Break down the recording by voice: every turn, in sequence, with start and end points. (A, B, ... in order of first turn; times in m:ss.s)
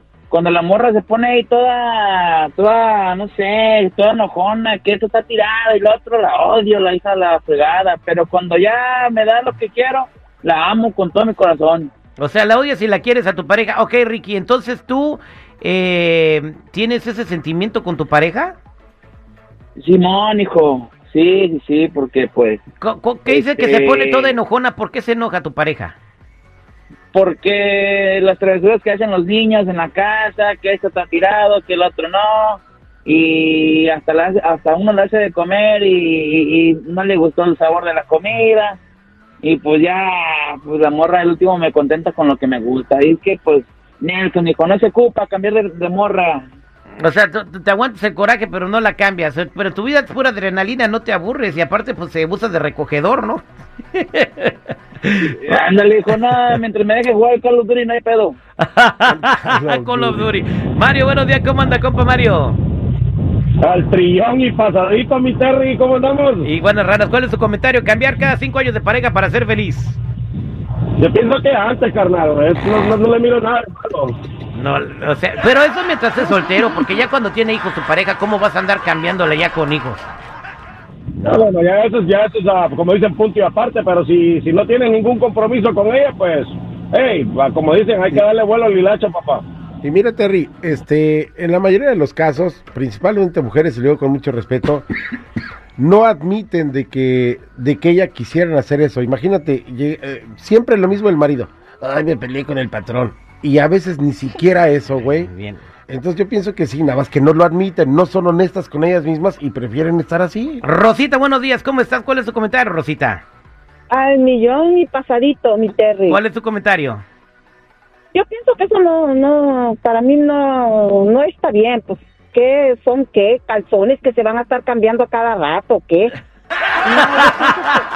0:00.3-0:11.9 A
0:12.2-0:18.6 B
0:19.8-0:22.6 A
0:22.8-0:26.0 B
0:23.3-0:24.4 A
0:27.1-0:38.8 A
0:39.4-0:46.5 A
0:47.0-0:53.4 B
0:53.9-0:55.3 B
0:55.2-0:58.4 A
0:58.6-1:02.6 B
0:59.0-1:00.3 C
1:03.6-1:06.5 D
1:06.4-1:10.0 B
1:11.0-1:14.2 D
1:14.5-1:20.1 B
1:21.2-1:29.4 D
1:29.8-1:34.8 C
1:35.8-1:45.3 C
1:45.0-1:45.6 B
1:45.9-1:50.6 C
1:50.6-1:53.2 B
1:53.9-1:56.2 E
1:56.1-1:57.0 B
1:58.1-2:06.1 E
2:06.8-2:07.8 E
2:06.9-2:07.5 B